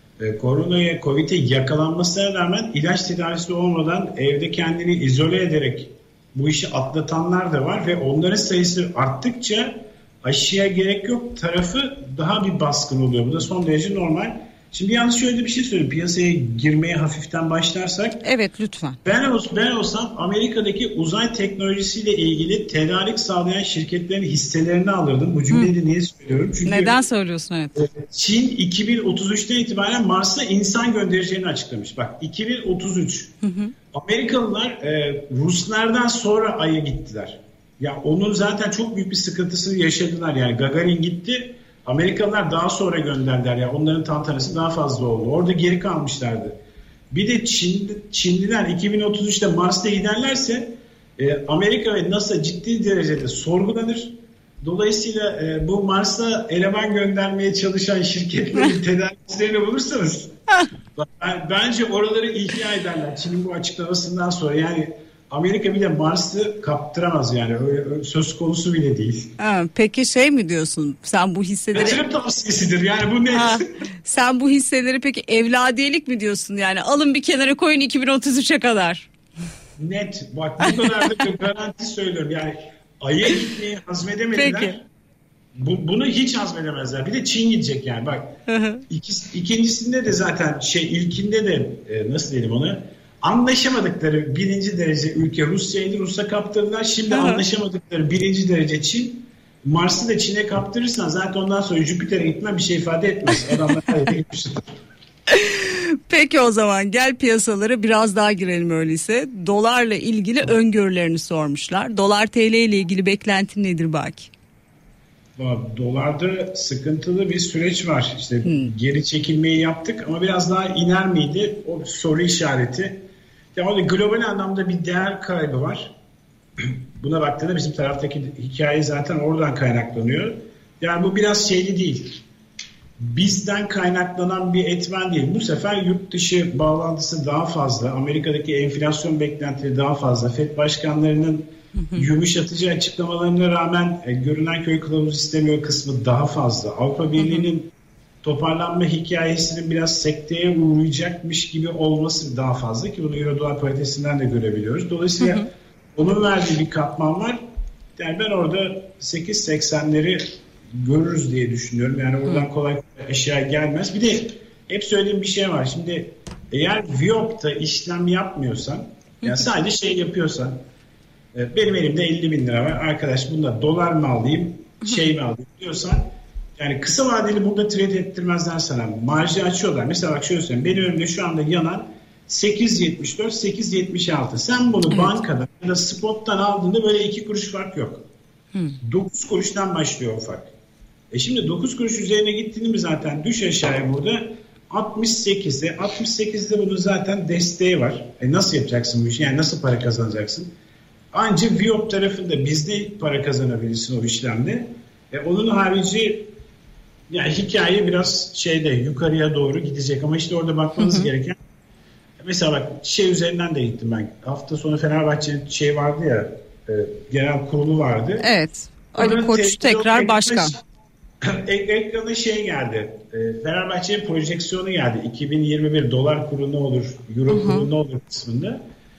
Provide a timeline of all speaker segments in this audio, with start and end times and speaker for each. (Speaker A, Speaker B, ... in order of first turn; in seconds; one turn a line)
Speaker A: 0.2-18.2
Speaker B: 18.2-19.0
Speaker A: 19.0-26.9
Speaker B: 26.6-27.8
Speaker A: 27.8-33.3
Speaker B: 33.4-33.7
Speaker A: 33.9-46.5
Speaker A: 47.1-60.3
Speaker A: 60.9-69.3
Speaker B: 69.4-72.0
Speaker A: 71.7-73.6
Speaker B: 73.3-79.1
Speaker A: 79.8-84.8
Speaker B: 80.7-81.2
Speaker B: 84.3-84.7
Speaker A: 85.5-88.3
Speaker B: 88.5-88.8
Speaker A: 88.9-104.7
Speaker B: 97.1-97.4
Speaker B: 105.3-114.3
Speaker A: 115.4-125.9
Speaker B: 118.4-118.7
Speaker A: 126.6-132.2
Speaker A: 133.0-147.7
Speaker B: 147.2-147.4
Speaker A: 148.2-157.4
Speaker B: 155.2-155.4
Speaker A: 158.0-170.6
Speaker A: 171.3-188.0
Speaker A: 188.8-190.5
Speaker A: 191.1-200.5
Speaker A: 201.1-206.3
Speaker A: 207.1-211.4
Speaker B: 210.8-211.1
Speaker A: 212.2-218.3
Speaker B: 218.2-220.5
Speaker A: 218.9-220.6
Speaker A: 221.2-228.6
Speaker B: 227.3-227.7